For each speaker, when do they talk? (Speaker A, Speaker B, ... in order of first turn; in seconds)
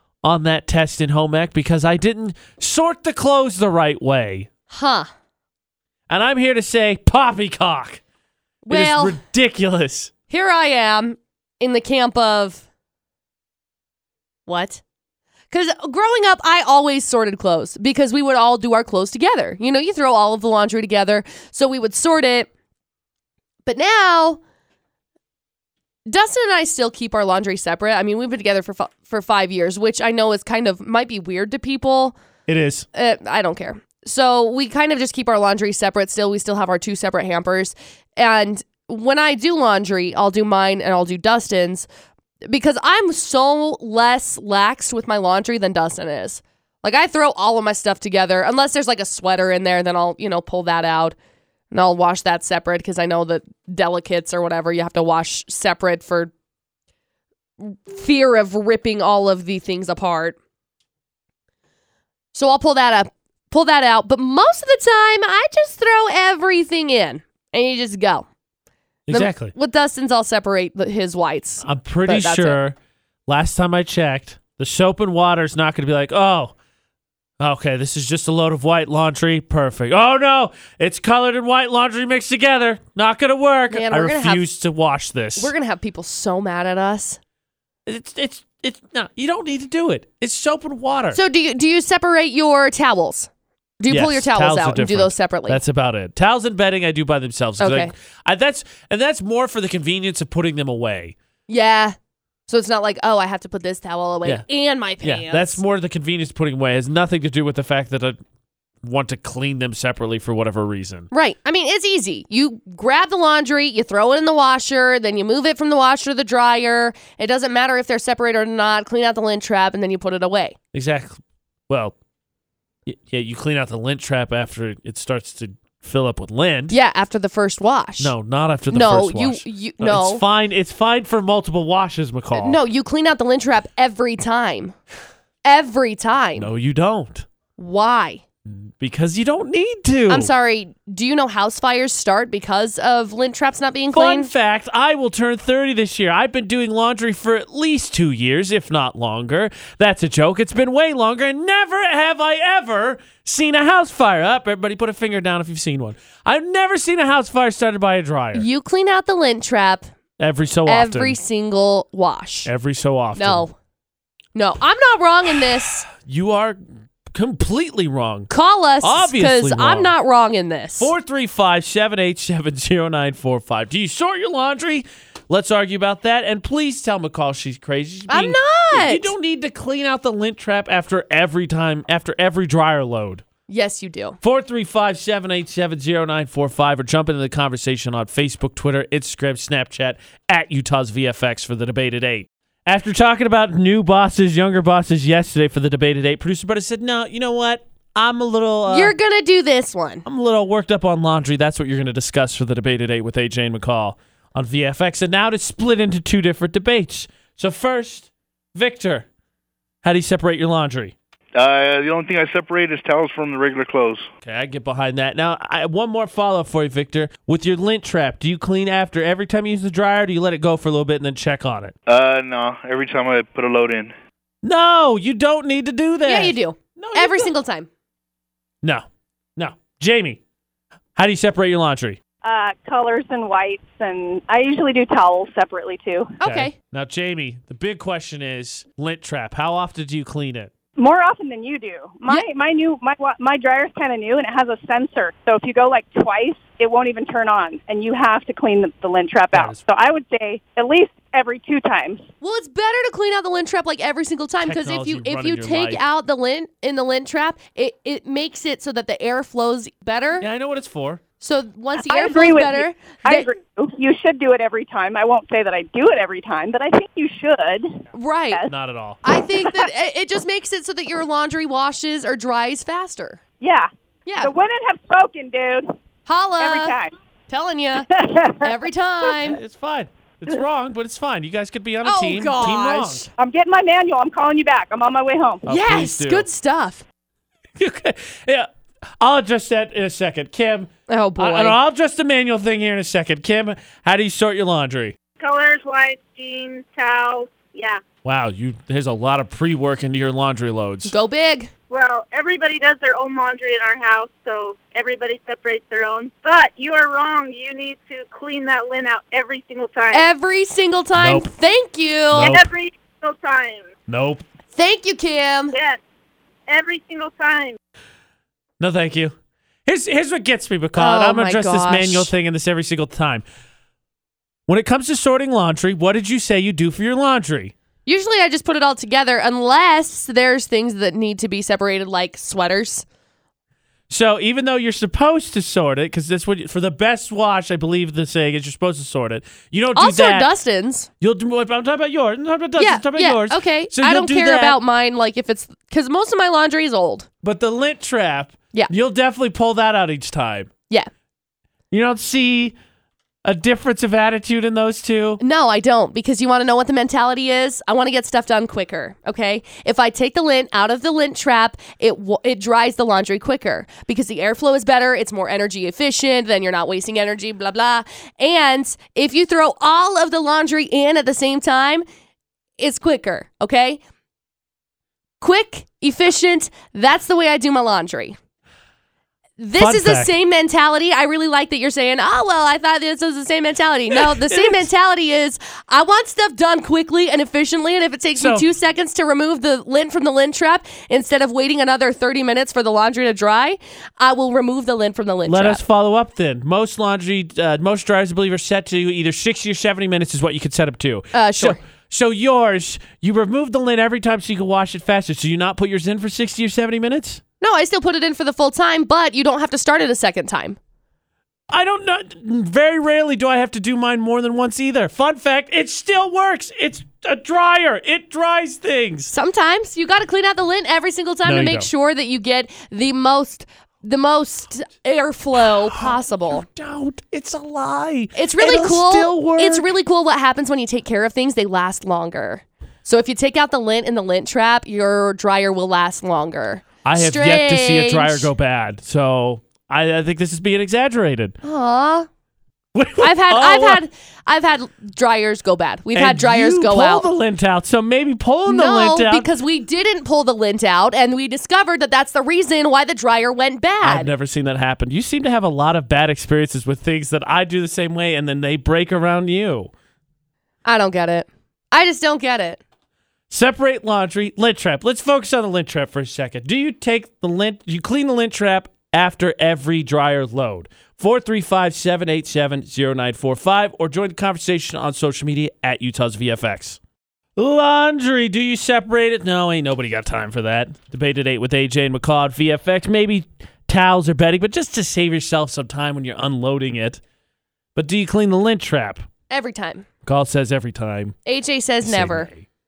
Speaker A: 0.2-4.5, 6.1-8.0, 8.7-10.1, 32.5-32.9, 69.1-69.5, 71.6-72.8, 73.3-76.5, 77.4-85.5, 87.9-91.2, 93.9-101.2, 105.0-108.2, 108.8-111.1, 120.7-122.0, 122.9-126.8, 128.0-132.6, 136.4-137.3, 138.5-140.3, 143.9-158.5, 160.2-161.2, 162.5-163.5, 165.9-166.6, 167.1-168.3, 168.8-169.9, 170.8-183.2, 184.2-198.9, 200.1-209.1, 209.8-210.9, 214.2-221.7, 224.4-227.3, 229.4-230.2, 231.0-232.0, 236.2-240.5, 249.3-249.6, 254.4-255.8, 260.2-261.0, 268.5-269.0, 279.3-283.1, 285.5-286.3, 287.6-288.5, 289.0-294.9, 298.0-300.9, 311.0-311.3, 312.1-312.5, 313.9-314.2, 318.6-323.2, 324.5-327.5, 333.9-340.3, 341.0-344.6, 347.2-350.5, 351.7-352.6, 353.2-355.2, 379.6-380.1, 384.1-384.6, 388.2-388.5, 395.3-407.2, 411.5-419.1, 421.2-421.7, 425.6-429.7, 436.8-441.4, 442.8-443.8, 445.9-449.3, 453.8-459.7, 463.3-476.8, 477.4-487.0, 487.8-489.1, 490.1-491.2, 491.8-492.5
Speaker B: 4.7-5.1, 8.6-9.2, 10.3-12.6, 14.5-14.8, 15.5-22.5, 23.7-24.4, 26.1-32.1, 32.9-41.9, 42.5-51.2, 51.7-56.3, 57.6-60.4, 62.3-68.3, 69.1-72.6, 83.7-84.5, 85.4-87.2, 91.1-93.3, 93.8-95.6, 97.6-97.9, 101.5-102.0, 102.5-105.6, 111.1-120.6, 126.7-128.1, 128.7-130.2, 132.3-134.8, 135.4-136.5, 137.6-138.2, 140.1-144.3, 158.3-159.9, 160.7-162.5, 163.2-163.5, 164.3-165.9, 168.3-170.9, 178.1-179.1, 183.5-184.2, 198.7-200.0, 226.1-227.7, 236.2-236.5, 252.2-260.3, 261.2-263.3, 267.9-268.4, 269.0-273.2, 274.1-274.3, 276.1-276.8, 277.3-277.9, 278.4-279.4, 281.8-283.1, 285.5-286.9, 290.9-291.6, 300.9-301.5, 309.9-312.4, 314.6-315.6, 320.8-322.1, 327.9-332.9, 339.8-340.9, 342.6-347.1, 355.2-371.9, 372.6-373.8, 375.2-378.2, 379.4-395.6, 401.1-401.6, 407.4-410.6, 419.1-426.5, 428.1-438.3, 441.4-442.1, 443.0-447.1, 448.5-454.1, 460.6-462.6, 489.3-489.9, 491.3-492.3
Speaker C: 211.4-214.1, 221.9-223.9
Speaker D: 232.2-236.2, 240.8-252.0, 261.9-268.5, 269.3-269.7, 273.4-275.7, 276.4-276.9, 277.9-278.6, 283.2-285.5
Speaker E: 295.2-297.8, 301.7-310.1, 312.2-313.7, 315.5-315.8, 316.5-317.6